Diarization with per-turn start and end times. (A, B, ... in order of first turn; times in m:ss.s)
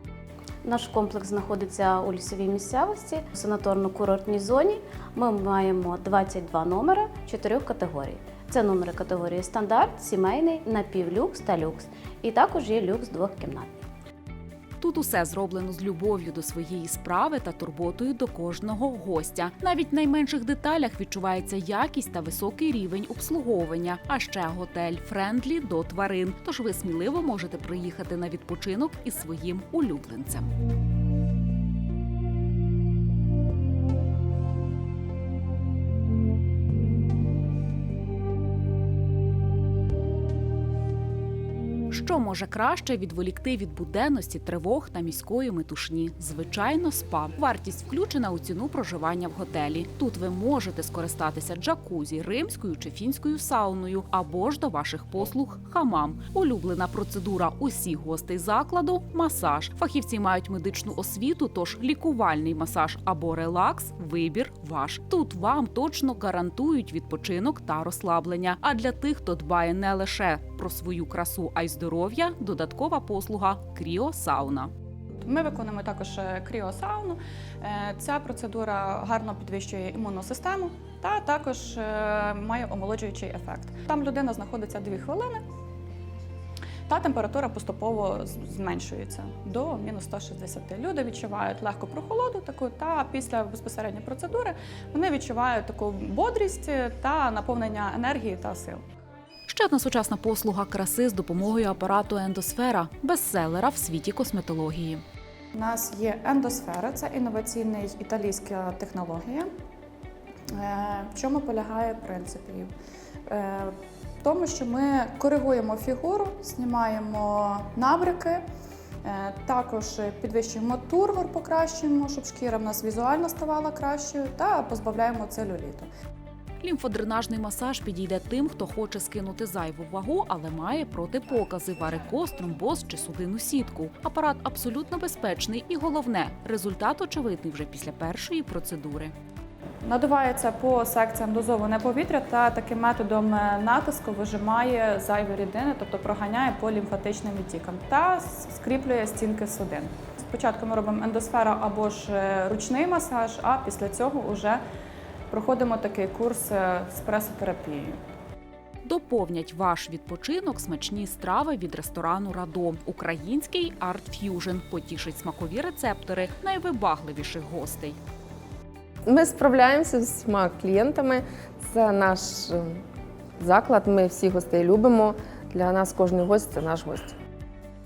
0:00.6-0:13.8 A
0:14.8-0:30.5 B
0:41.9-1:14.7 B
1:15.2-1:25.4 C
1:26.9-1:38.8 C
1:39.5-1:45.0 B
1:45.5-1:49.5 C
1:50.5-1:52.7 C
1:53.3-1:58.4 C
1:59.0-2:05.9 C
2:06.6-2:19.1 B
2:19.8-2:34.6 C
2:35.3-2:38.0 C
2:38.8-2:48.0 B
2:49.1-2:52.8 D
2:53.4-2:57.1 D